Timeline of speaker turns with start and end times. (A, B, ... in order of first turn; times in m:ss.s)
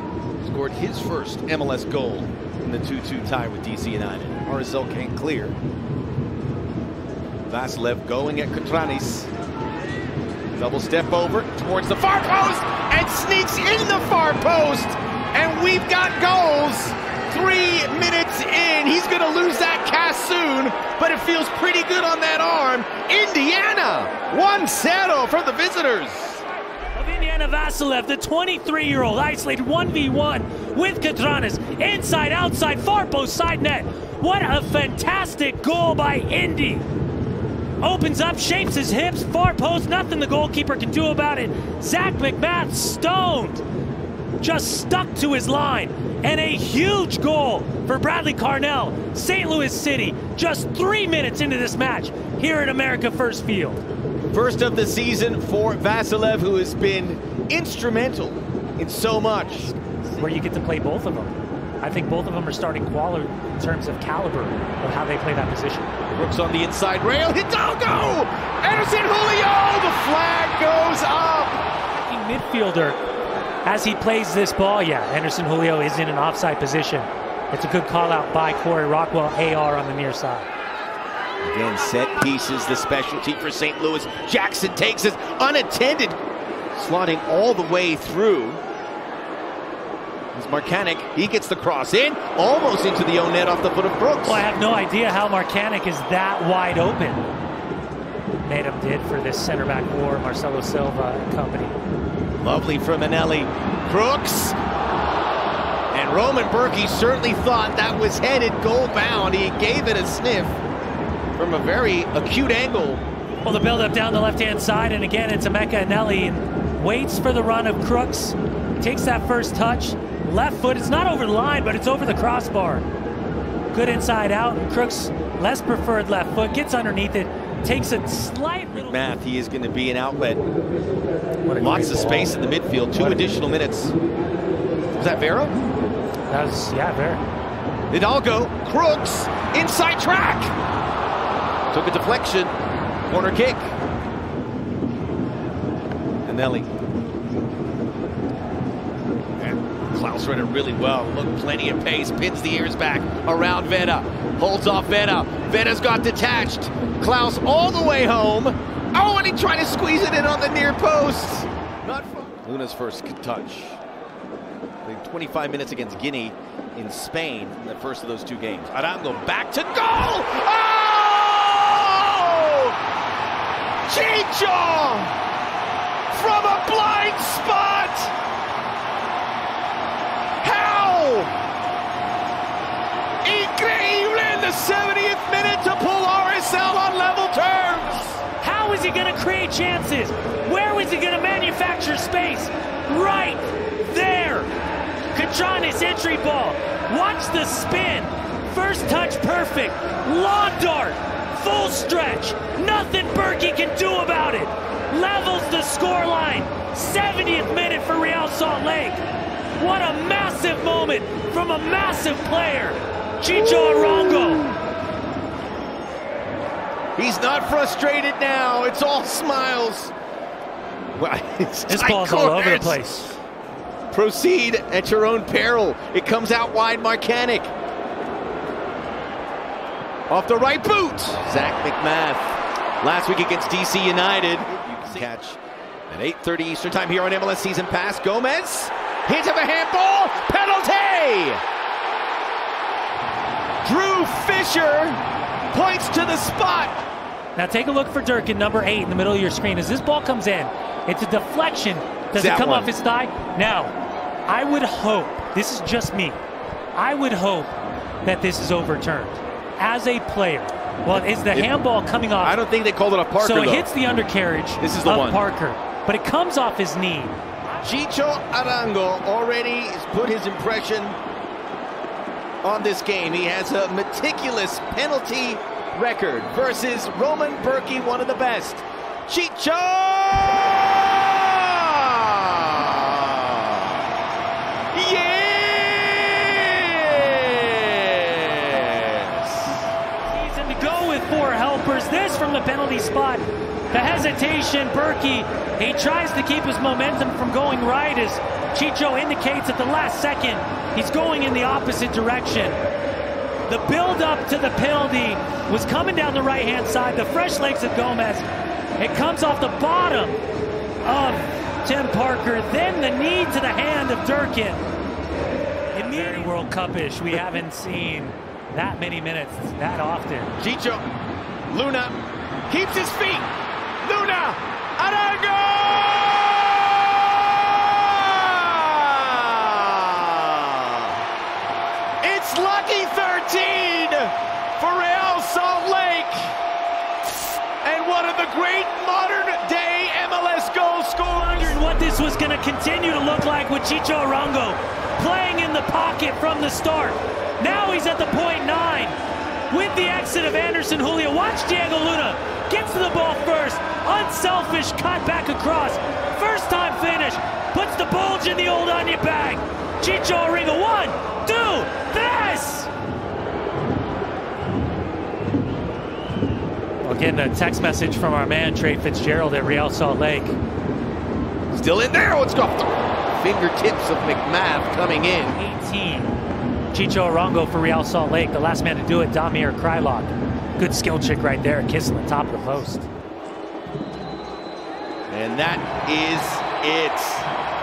0:00.4-0:05.5 A
0:07.5-0:09.3 A
0:10.6-0:26.4 A
0:26.9-0:36.9 B
0:37.8-0:43.6 B
0:44.4-0:53.8 B
0:54.3-0:59.7 A
0:59.7-1:05.9 B
1:06.1-1:11.6 A
1:12.0-1:13.0 B
1:13.6-1:20.5 B
1:21.4-1:26.2 A
1:26.7-1:28.6 A
1:30.3-1:34.4 A
1:34.2-1:37.3 B
1:38.4-1:41.8 B
1:42.4-1:44.6 A
1:45.9-1:50.6 A
1:51.4-1:53.0 A
1:53.4-2:02.8 B
2:03.7-2:09.0 B
2:08.7-2:10.4 A
2:11.4-2:12.4 B
2:11.6-2:14.0 A
2:12.9-2:13.4 B
2:15.0-2:15.5 A
2:16.3-2:17.2 B
2:17.9-2:20.6 A
2:21.7-2:22.5 A
2:23.1-2:23.7 A
2:26.2-2:26.7 A
2:29.4-2:43.8 A
2:44.8-2:52.8 A
2:53.9-2:55.2 A
2:56.1-2:58.1 A
3:00.4-3:01.3 A
3:03.2-3:08.2 A
3:08.4-3:14.5 B
3:15.1-3:29.0 B
3:29.6-3:34.5 B
3:37.0-3:39.9 A
3:40.9-3:42.8 A
3:41.7-3:43.2 B
3:43.9-3:47.5 A
3:50.1-4:01.4 A
4:03.6-4:06.8 A
4:07.4-4:13.7 B
4:12.1-4:12.7 A
4:14.3-4:16.2 B
4:16.8-4:22.4 B
4:22.2-4:23.7 A
4:23.2-4:27.1 B
4:24.6-4:25.2 A
4:27.6-4:31.0 A
4:32.4-4:43.8 A
4:44.7-4:49.7 A
4:50.1-5:02.6 B
5:03.5-5:08.2 B
5:08.8-5:10.2 B
5:10.8-5:14.6 B
5:15.7-5:20.4 B
5:15.8-5:16.3 A
5:20.4-5:20.8 A
5:21.5-5:31.0 A
5:32.0-5:36.4 A
5:37.0-5:41.6 A
5:41.2-5:49.0 B
5:49.5-6:02.7 B
6:06.8-6:10.4 B
6:11.5-6:15.4 A
6:15.3-6:16.2 B
6:16.7-6:22.9 B
6:25.1-6:27.3 A